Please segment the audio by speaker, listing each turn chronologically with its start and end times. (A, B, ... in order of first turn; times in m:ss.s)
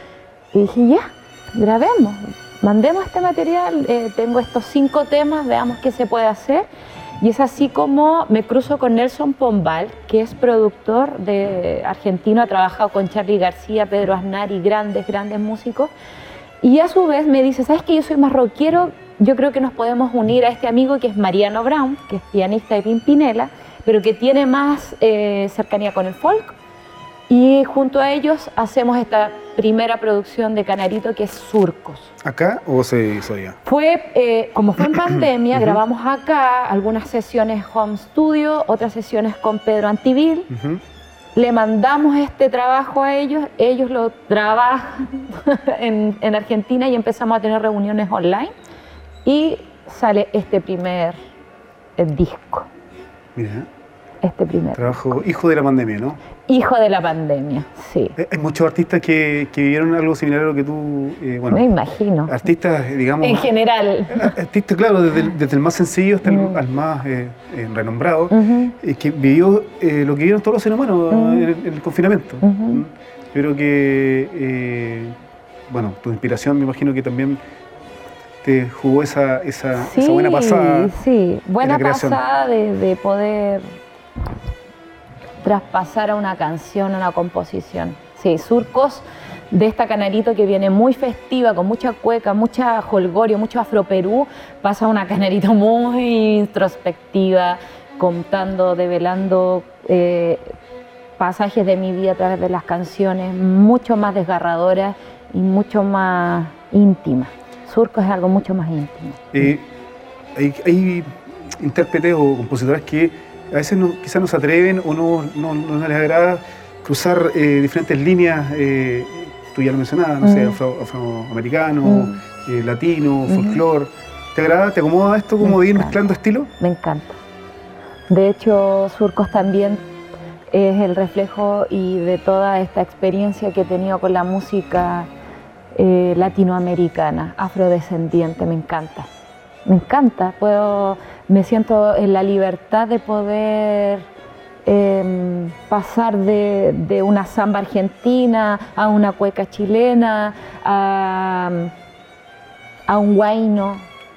0:00.5-0:06.7 A
0:07.2-0:15.9 A
0:16.6-0:26.5 A
0:27.3-0:32.1 A
0:32.2-0:33.6 B
0:33.6-0:40.5 A
0:35.0-0:35.8 B
0:40.5-0:40.8 B
0:41.3-0:48.5 A
0:49.2-0:51.2 A
0:52.0-0:52.7 A
0:53.3-0:53.7 B
0:54.2-0:55.2 A
0:54.7-0:56.2 B
0:56.5-0:58.2 A
0:58.2-1:01.7 B
1:01.5-1:02.4 A
1:02.3-1:03.5 B
1:03.2-1:04.4 A
1:04.1-1:17.4 B
1:06.2-1:06.6 A
1:08.3-1:08.7 A
1:11.1-1:11.5 A
1:12.4-1:12.8 A
1:18.4-1:20.9 B
1:19.7-1:23.8 A
1:21.6-1:22.2 B
1:25.4-1:40.5 A
1:41.2-1:49.5 A
1:49.3-1:49.7 B
1:50.3-2:06.5 B
2:00.2-2:00.6 A
2:01.8-2:02.2 A
2:03.3-2:03.6 A
2:05.4-2:06.0 A
2:06.6-2:07.2 A
2:08.1-2:09.8 A
2:10.5-2:15.1 A
2:15.7-2:19.1 A
2:19.6-2:24.1 A
2:24.6-2:31.7 A
2:32.9-2:33.9 A